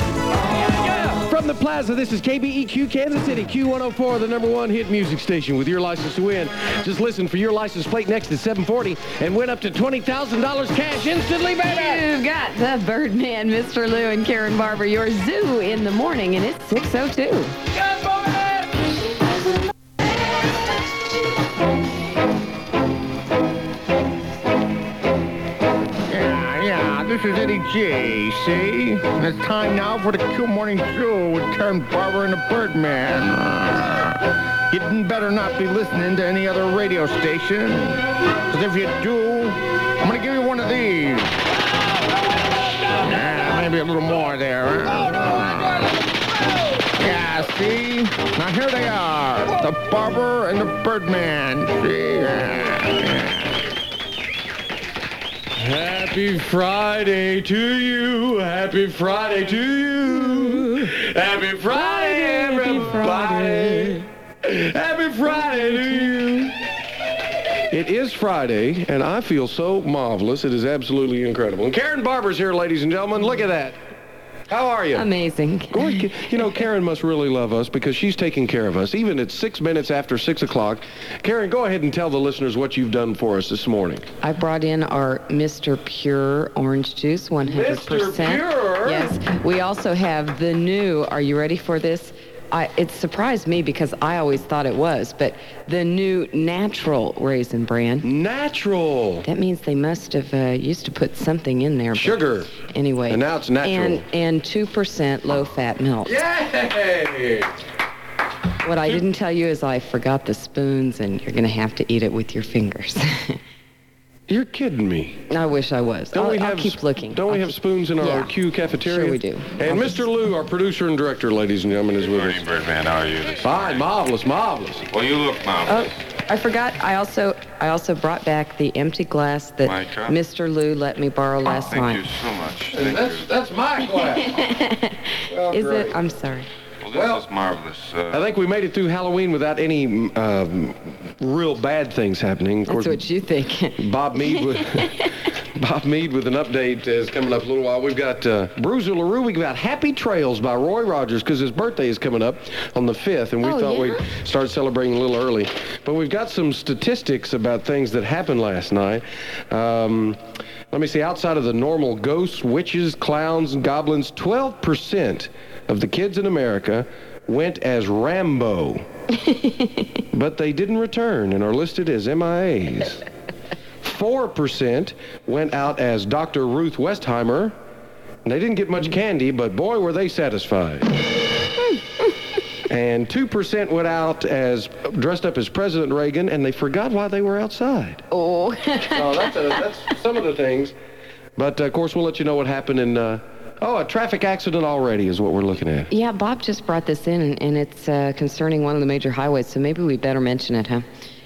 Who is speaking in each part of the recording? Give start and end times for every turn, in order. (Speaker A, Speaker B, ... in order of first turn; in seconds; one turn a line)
Speaker A: 1.0-12.0
Speaker B: 11.7-17.5
Speaker A: 17.9-18.4
Speaker C: 26.1-34.2
Speaker C: 34.7-41.4
Speaker C: 42.9-45.9
Speaker C: 46.9-53.3
Speaker A: 55.6-66.5
Speaker B: 60.2-60.9
Speaker B: 61.7-64.0
Speaker A: 67.7-73.8
Speaker A: 74.5-75.1
Speaker B: 74.9-76.3
Speaker A: 75.7-84.0
Speaker B: 84.2-98.1
Speaker A: 87.4-89.1
Speaker A: 98.0-99.2
Speaker B: 99.2-106.2
Speaker A: 101.9-102.5
Speaker A: 103.1-104.0
Speaker A: 106.0-107.5
Speaker B: 108.6-113.4
Speaker A: 114.3-115.2
Speaker B: 115.3-118.3
Speaker A: 116.1-122.4
Speaker B: 118.8-120.0
Speaker D: 122.2-123.8
Speaker A: 123.4-124.9
Speaker D: 124.9-125.9
Speaker B: 125.7-132.0
Speaker D: 129.6-130.2
Speaker D: 131.5-133.2
Speaker A: 132.7-134.4
Speaker B: 134.0-136.5
Speaker A: 135.3-136.0
Speaker D: 136.8-138.2
Speaker A: 136.9-137.2
Speaker A: 138.1-143.0
Speaker B: 142.7-143.8
Speaker A: 143.8-160.2
Speaker B: 153.4-154.0
Speaker A: 160.7-168.9
Speaker A: 170.1-173.0
Speaker A: 173.8-177.5
Speaker A: 178.2-180.9
Speaker A: 182.7-188.0
Speaker B: 188.1-189.3
Speaker A: 188.8-190.7
Speaker A: 191.3-195.9
Speaker B: 195.9-200.8